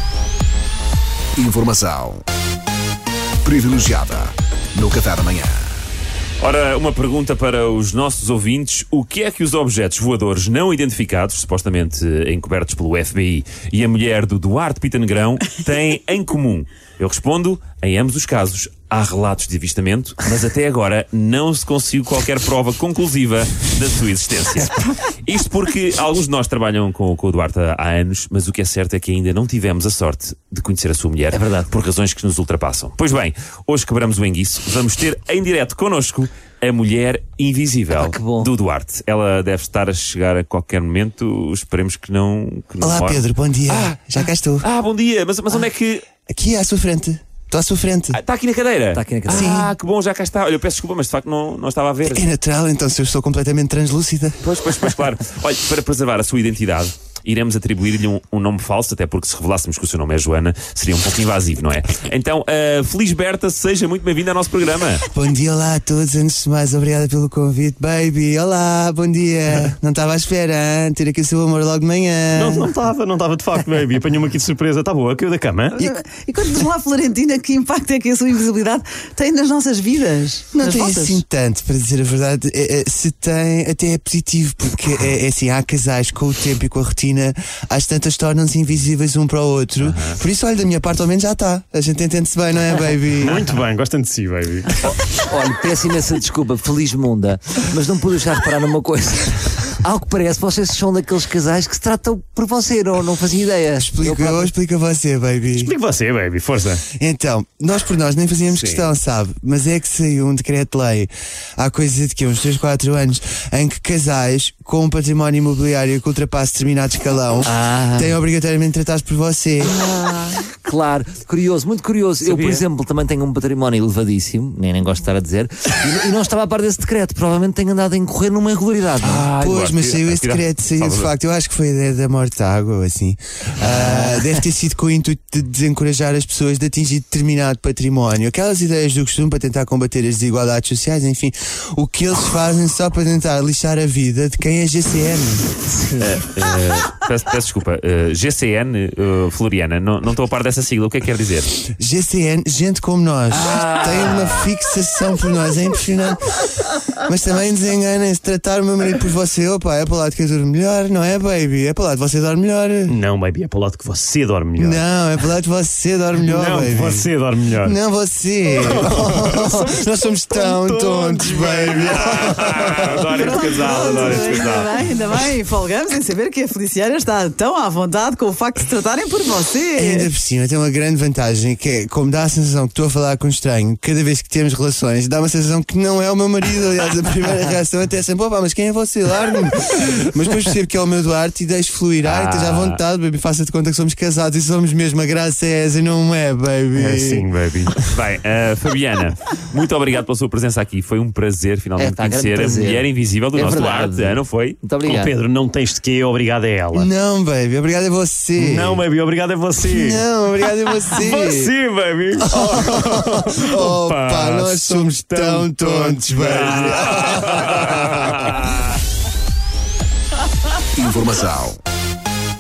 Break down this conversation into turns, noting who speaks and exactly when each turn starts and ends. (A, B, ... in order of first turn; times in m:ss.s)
0:01.4-0:02.2 A
0:03.4-0:05.6 A
0:06.4-0:46.0 B
0:31.3-0:31.7 C
0:37.9-0:38.5 C
0:42.8-0:44.6 D
0:46.3-0:48.2 D
0:48.1-0:52.3 B
0:48.9-0:49.6 C
0:49.3-0:49.7 D
0:52.0-0:54.4 D
0:54.4-1:05.0 B
1:05.1-1:12.7 D
1:12.3-1:15.9 E
1:15.8-1:21.2 F
1:20.5-1:33.4 D
1:29.8-1:30.2 B
1:33.2-1:34.8 E
1:35.0-1:44.5 C
1:43.8-1:45.7 D
1:45.6-1:46.8 E
1:46.9-1:59.7 D
1:48.5-1:48.9 E
1:57.4-1:58.2 C
1:59.6-2:09.2 C
2:02.2-2:02.6 B
2:09.0-2:11.1 B
2:09.0-2:25.5 D
2:13.6-2:14.4 C
2:25.8-2:26.1 C
2:26.0-2:31.5 B
2:31.8-2:36.4 D
2:33.5-2:34.4 C
2:33.6-2:34.1 B
2:37.0-2:42.9 D
2:42.9-2:44.8 E
2:44.6-2:47.1 D
2:46.2-2:47.8 E
2:47.6-2:53.1 D
2:48.5-2:53.2 E
2:51.5-2:54.8 B
2:53.1-3:00.1 F
2:59.7-3:17.3 D
3:12.0-3:12.8 C
3:16.7-3:17.9 E
3:17.8-3:24.6 B
3:21.8-3:25.1 C
3:24.8-3:26.9 E
3:26.7-3:28.8 D
3:28.4-3:30.0 E
3:29.6-3:31.5 D
3:30.6-3:38.5 E
3:32.2-3:38.4 D
3:37.4-3:37.7 B
3:40.7-3:41.6 A